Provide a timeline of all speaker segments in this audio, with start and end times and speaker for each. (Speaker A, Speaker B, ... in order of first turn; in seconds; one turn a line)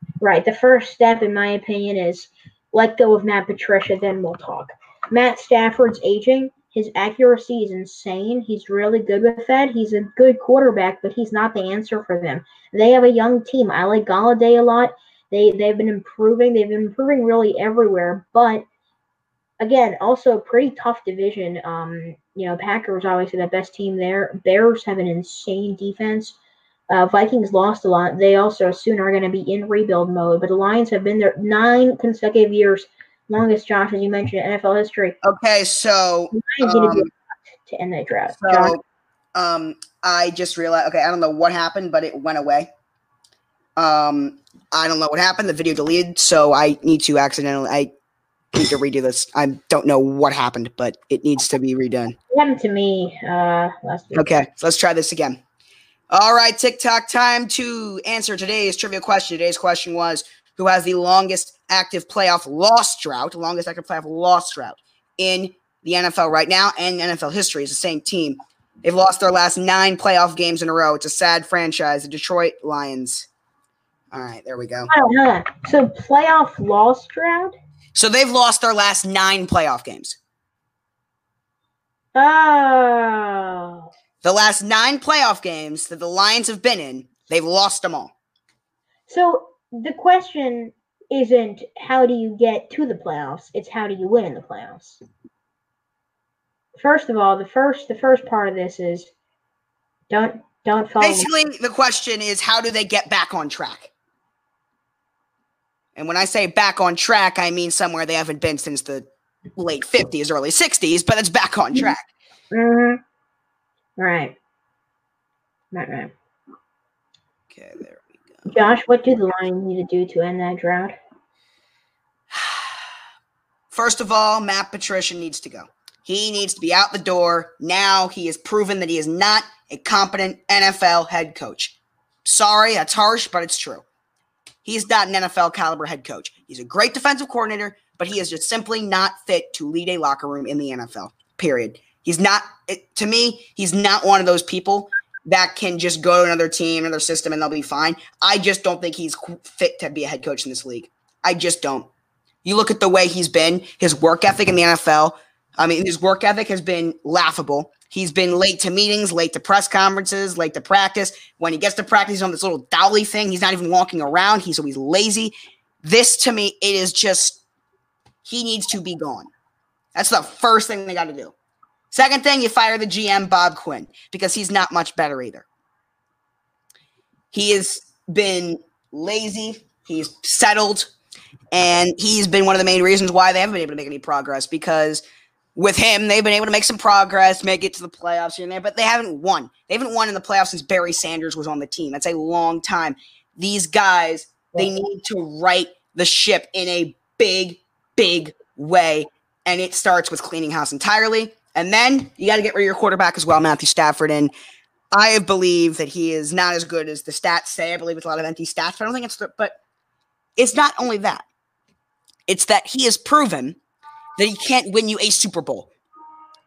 Speaker A: 0.2-18.6
Speaker A: 19.6-26.4
Speaker A: 26.9-35.2
Speaker B: 35.2-37.1
Speaker A: 36.3-37.1
Speaker A: 37.7-38.8
Speaker B: 38.4-38.8
Speaker B: 39.4-42.7
Speaker B: 43.8-47.9
Speaker B: 48.5-52.1
Speaker A: 52.3-54.3
Speaker B: 54.1-55.4
Speaker B: 56.1-73.3
Speaker B: 74.1-74.9
Speaker A: 74.9-77.5
Speaker B: 78.0-80.2
Speaker A: 82.2-83.9
Speaker B: 84.2-88.1
Speaker A: 89.1-95.0
Speaker A: 96.8-99.1
Speaker A: 100.1-101.3
Speaker B: 101.0-103.9
Speaker B: 106.0-112.1
Speaker A: 112.5-113.0
Speaker A: 114.0-114.3
Speaker A: 115.7-116.1
Speaker B: 117.5-118.2
Speaker A: 118.5-121.0
Speaker B: 122.3-122.8
Speaker B: 123.7-133.8
Speaker B: 134.6-151.9
Speaker B: 152.4-167.4
Speaker B: 168.2-169.3
Speaker B: 169.9-171.3
Speaker B: 171.9-175.5
Speaker B: 177.3-180.9
Speaker B: 181.5-185.0
Speaker B: 185.6-204.3
Speaker B: 204.9-209.6
Speaker B: 210.4-211.2
Speaker B: 212.3-213.6
Speaker B: 214.2-215.7